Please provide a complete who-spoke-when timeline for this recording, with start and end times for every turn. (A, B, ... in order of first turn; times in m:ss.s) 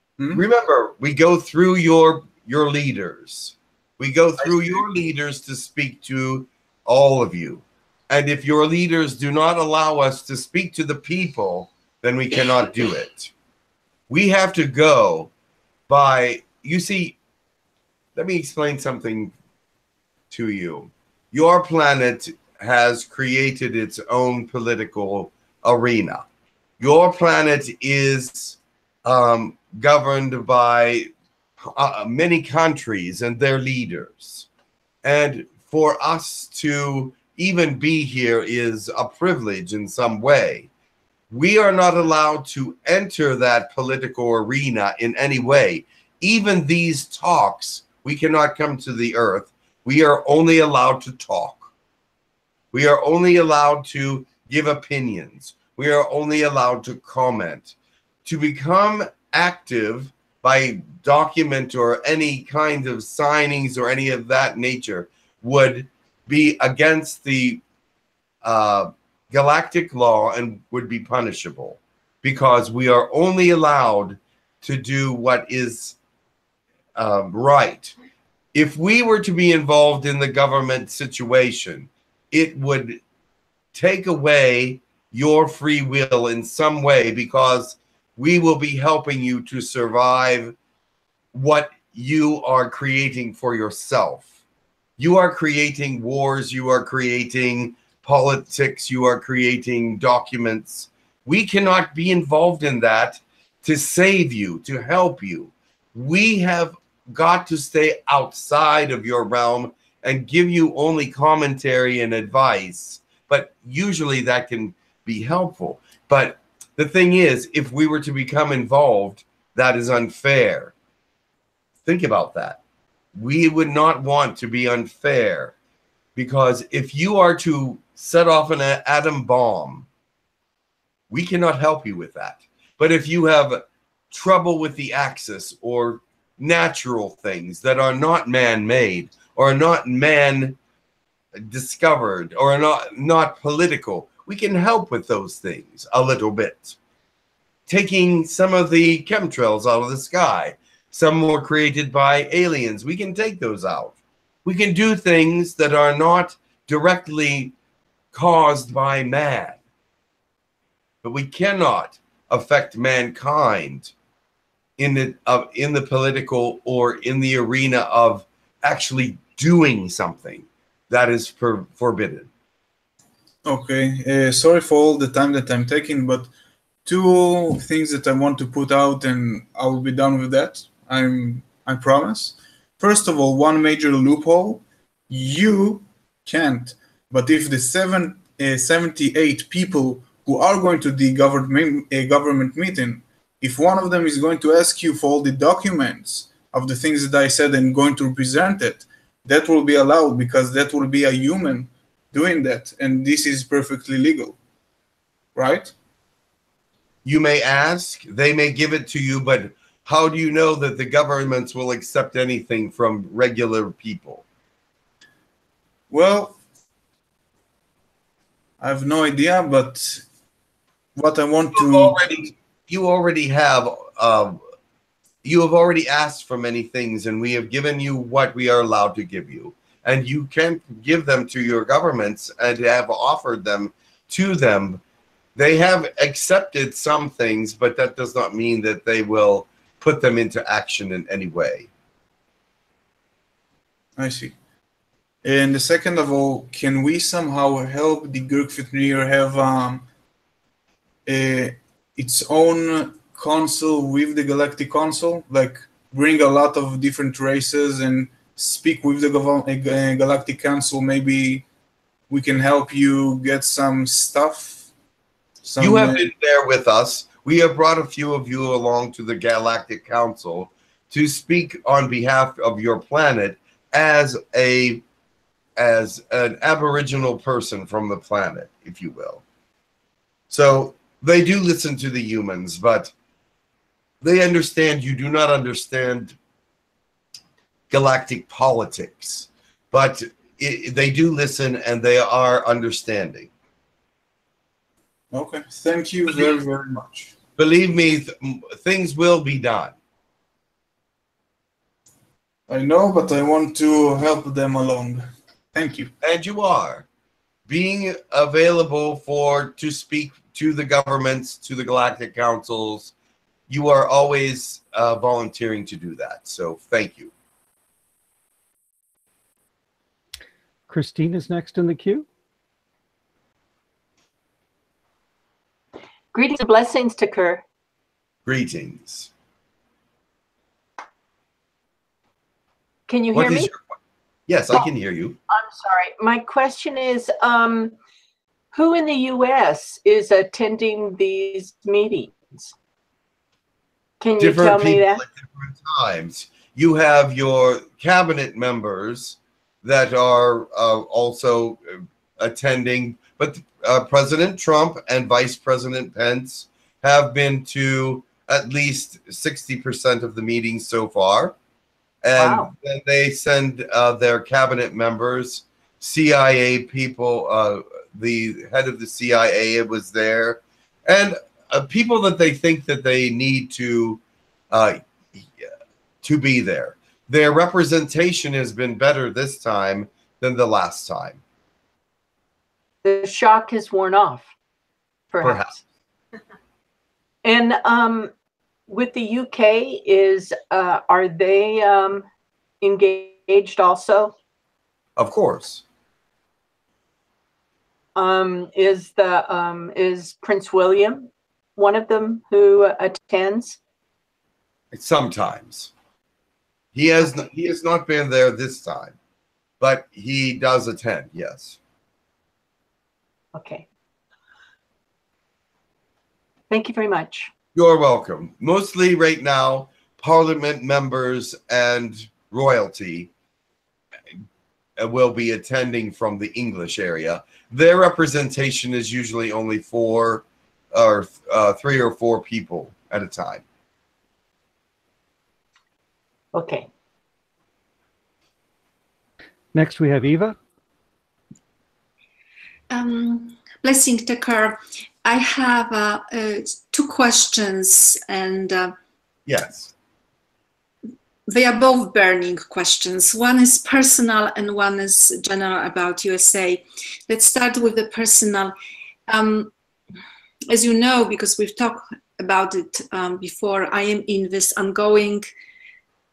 0:00.3-0:13.3 A
0:14.1-0:15.3 A
0:15.9-0:17.2 A
0:18.1-0:19.3 A
0:20.3-0:26.3 A
0:26.8-0:34.5 A
0:35.0-0:40.7 A
0:41.3-0:51.7 A
0:52.7-1:07.6 A
1:08.4-1:16.0 A
1:17.0-1:17.9 A
1:18.5-1:23.0 A
1:23.7-1:30.5 A
1:31.3-1:34.3 A
1:35.0-2:00.7 A
2:01.8-2:02.6 A
2:03.1-2:05.5 A
2:06.2-2:09.9 A
2:11.1-2:20.6 A
2:21.3-2:26.8 A
2:27.7-2:37.5 A
2:38.1-2:39.6 A
2:41.0-2:43.9 A
2:44.8-2:52.3 A
2:53.4-2:56.3 B
2:56.8-3:24.4 B
3:25.3-3:25.7 B
3:27.0-3:34.2 A
3:35.9-3:36.4 B
3:38.6-3:40.0 B
3:41.0-3:42.1 B
3:41.5-3:44.4 A
3:45.2-3:54.8 A
3:55.4-4:01.7 A
4:04.0-4:04.3 B
4:05.2-4:09.8 B
4:11.0-4:21.4 B
4:22.1-4:24.7 B
4:25.4-4:26.0 B
4:25.6-4:34.8 A
4:35.6-4:39.2 A
4:40.3-4:42.9 A
4:44.0-4:46.2 A
4:47.7-4:53.3 A
4:55.1-4:57.1 B
4:57.4-4:59.7 A
5:02.5-5:05.9 B
5:06.0-5:06.8 A
5:07.5-5:12.9 A
5:13.5-5:17.1 A
5:20.7-5:22.0 C
5:26.1-5:27.4 D
5:28.2-5:29.1 A
5:32.9-5:33.5 D
5:33.1-5:33.7 A
5:34.3-5:35.2 A
5:35.3-5:37.7 D
5:38.5-5:42.5 D
5:44.0-5:45.0 D
5:44.2-6:01.3 A
6:02.0-6:15.5 A
6:02.2-6:02.5 D
6:16.0-6:21.2 A
6:22.8-6:24.3 D
6:25.1-6:25.6 D
6:25.2-6:25.5 A
6:27.2-6:28.1 D
6:28.7-6:32.0 D
6:32.6-6:34.1 D
6:35.0-6:35.6 A
6:37.9-6:43.6 D
6:44.7-6:45.7 A
6:46.7-6:48.9 A
6:49.6-6:51.6 A
6:53.3-6:53.6 D
6:56.5-6:57.3 D
6:57.5-7:03.1 A
7:04.8-7:13.4 A
7:16.3-7:16.7 D
7:19.5-7:20.4 C
7:22.7-7:28.7 E
7:29.2-7:29.7 A
7:31.3-7:38.5 E
7:39.1-7:39.5 E
7:40.5-7:45.2 E